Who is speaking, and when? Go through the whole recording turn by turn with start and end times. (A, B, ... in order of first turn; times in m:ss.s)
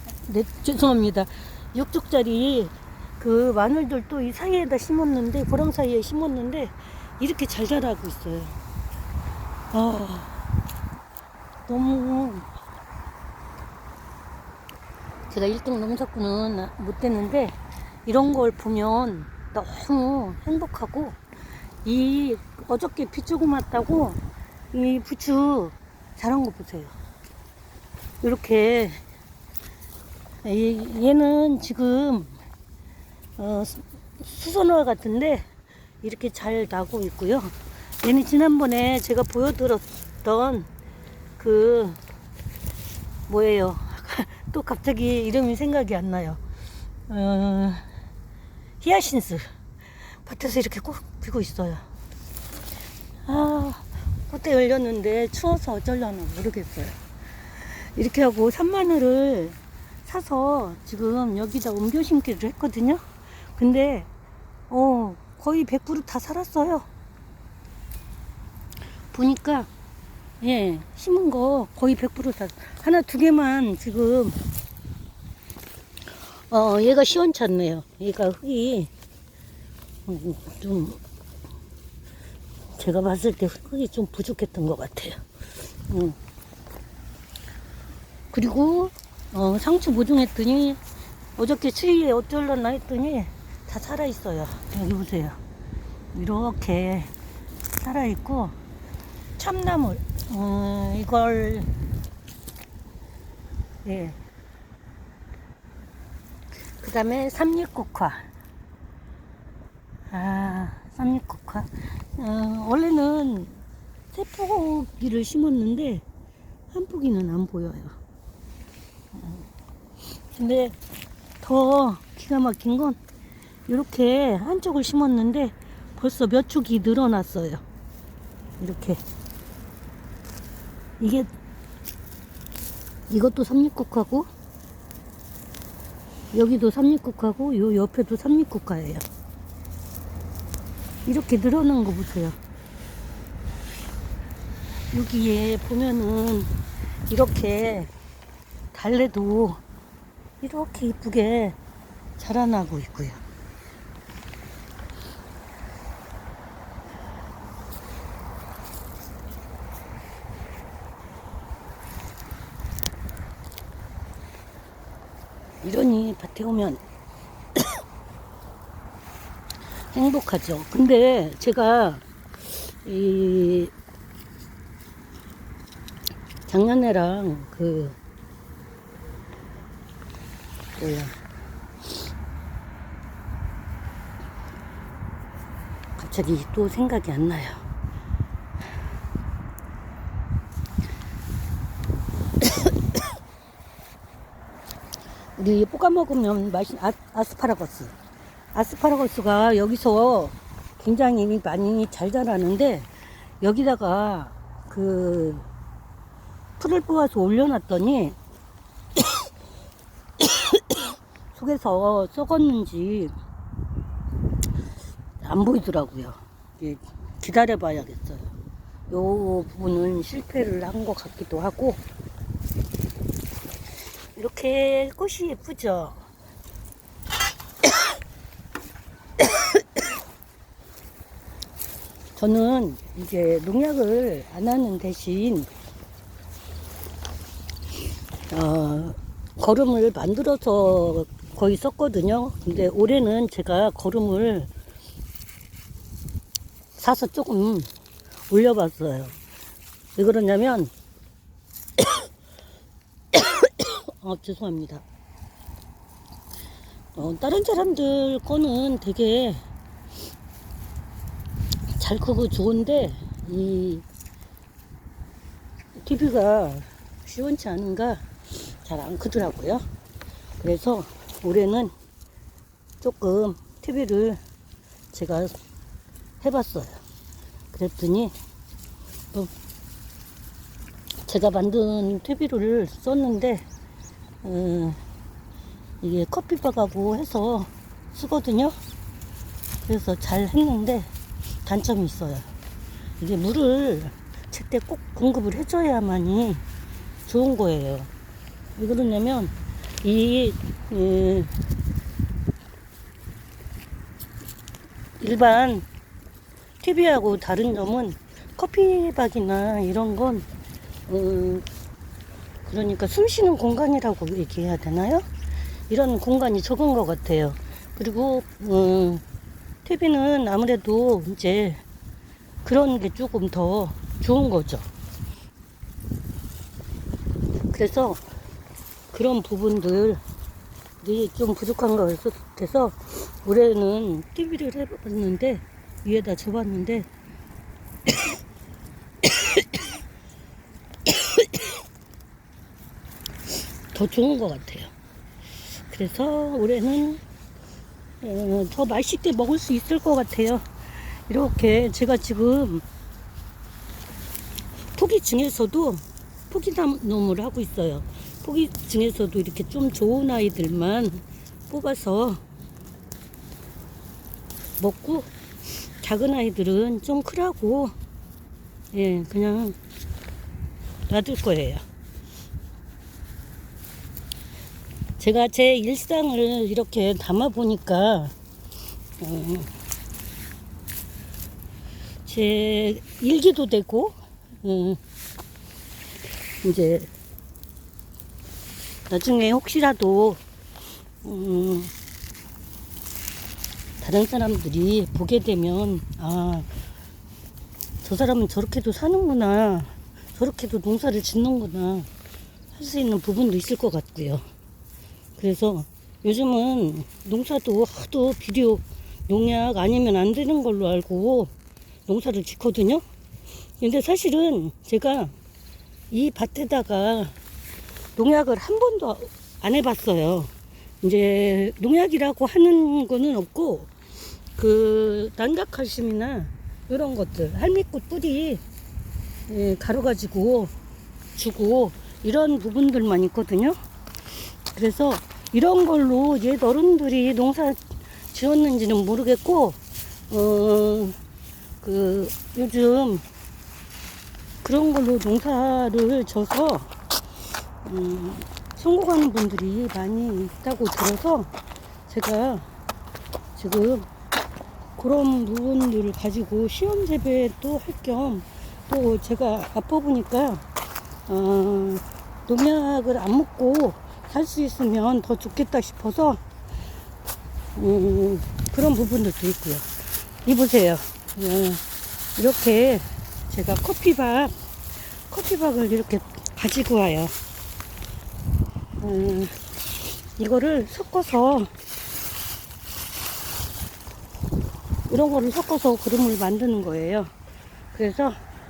0:00.2-0:08.6 A
0:09.7-0:10.4 A
0:11.7-0:12.5 A
0:15.3-0:21.2 A
0:21.8-0:24.2 A
0:24.7-0:26.9 A
0:28.2-0:29.0 A
0:30.4-0:32.4 A
0:33.4-0:35.5 A
0:36.0-0:40.7 A
0:41.4-0:42.0 A
0:43.3-0:46.4 A
0:47.1-0:47.8 A
0:48.8-0:49.5 A
0:50.2-0:51.8 A
0:53.3-0:57.0 A
0:57.6-1:03.0 A
1:03.6-1:04.1 A
1:04.7-1:06.9 A
1:09.1-1:09.7 A
1:10.4-1:14.4 A
1:16.5-1:18.9 A
1:20.1-1:21.0 A
1:22.8-1:25.2 A
1:25.9-1:26.2 A
1:28.3-1:30.8 A
1:31.4-1:35.4 A
1:36.1-1:37.1 A
1:37.8-1:38.6 A
1:39.4-1:41.7 A
1:43.8-1:44.2 A
1:46.8-1:48.3 A
1:50.1-1:53.6 A
1:54.1-1:56.0 A
1:56.7-1:58.0 A
1:59.1-1:59.4 A
2:00.3-2:00.8 A
2:01.4-2:03.0 A
2:03.7-2:07.6 A
2:08.6-2:09.0 A
2:11.0-2:11.3 A
2:13.1-2:14.3 A
2:16.3-2:19.0 A
2:21.1-2:22.4 A
2:24.9-2:26.5 A
2:27.1-2:27.9 A
2:28.7-2:29.6 A
2:30.4-2:31.6 A
2:32.2-2:33.2 A
2:45.6-2:46.8 A
2:49.9-2:52.0 A
2:52.5-2:53.7 A
2:56.5-2:58.0 A
3:00.8-3:01.2 A
3:06.0-3:07.6 A
3:15.4-3:17.9 A
3:18.5-3:22.9 A
3:23.4-3:25.5 A
3:26.6-3:28.2 A
3:30.2-3:33.1 A
3:35.2-3:38.3 A
3:38.9-3:41.8 A
3:44.2-3:46.0 A
3:49.2-3:49.5 A
3:52.2-3:55.5 A
3:58.3-4:04.5 A
4:06.8-4:07.7 A
4:08.3-4:09.2 A
4:10.0-4:10.7 A
4:13.1-4:14.8 A
4:17.0-4:19.4 A
4:21.7-4:23.8 A
4:25.8-4:29.6 A
4:30.4-4:31.7 A
4:32.8-4:34.2 A
4:34.9-4:35.3 A
4:36.2-4:36.8 A
4:37.5-4:38.1 A
4:41.1-4:43.5 A
4:44.2-4:44.8 A
4:45.8-4:48.6 A
4:49.7-4:50.9 A
4:51.4-4:52.3 A
4:53.0-4:56.4 A
4:57.1-4:57.9 A
4:58.6-5:01.3 A
5:05.0-5:05.7 A
5:06.6-5:10.3 A
5:10.9-5:11.5 A
5:12.4-5:15.1 A
5:15.7-5:19.0 A
5:19.6-5:21.6 A
5:22.4-5:24.7 A
5:27.5-5:28.0 A
5:28.9-5:30.0 A
5:30.8-5:36.9 A
5:39.0-5:39.6 A
5:40.9-5:41.4 A
5:43.7-5:44.7 A
5:45.7-5:47.0 A
5:48.0-5:52.6 A
5:54.8-6:02.2 A
6:04.6-6:05.1 A
6:05.8-6:07.7 A
6:08.7-6:09.6 A
6:10.9-6:11.6 A
6:15.0-6:18.2 A
6:19.0-6:19.5 A
6:22.1-6:24.8 A
6:26.4-6:26.9 A
6:28.9-6:30.2 A
6:31.0-6:31.7 A
6:33.8-6:36.5 A
6:37.8-6:41.9 A
6:42.5-6:44.2 A
6:45.2-6:51.3 A
6:51.9-6:52.8 A
6:53.6-6:55.1 A
6:55.9-6:57.1 A
6:58.0-7:03.7 A
7:04.4-7:08.4 A
7:09.3-7:10.5 A
7:11.2-7:13.6 A
7:14.5-7:19.6 A
7:20.1-7:21.0 A
7:21.6-7:23.0 A
7:24.4-7:26.7 A
7:27.6-7:31.3 A
7:31.9-7:32.5 A
7:33.4-7:33.9 A
7:34.8-7:40.4 A
7:41.1-7:46.2 A
7:47.6-7:49.7 A
7:50.2-7:51.6 A
7:52.2-7:54.3 A
7:55.1-7:57.1 A
7:58.8-7:59.4 A
8:00.2-8:01.5 A
8:04.9-8:07.1 A
8:07.7-8:08.2 A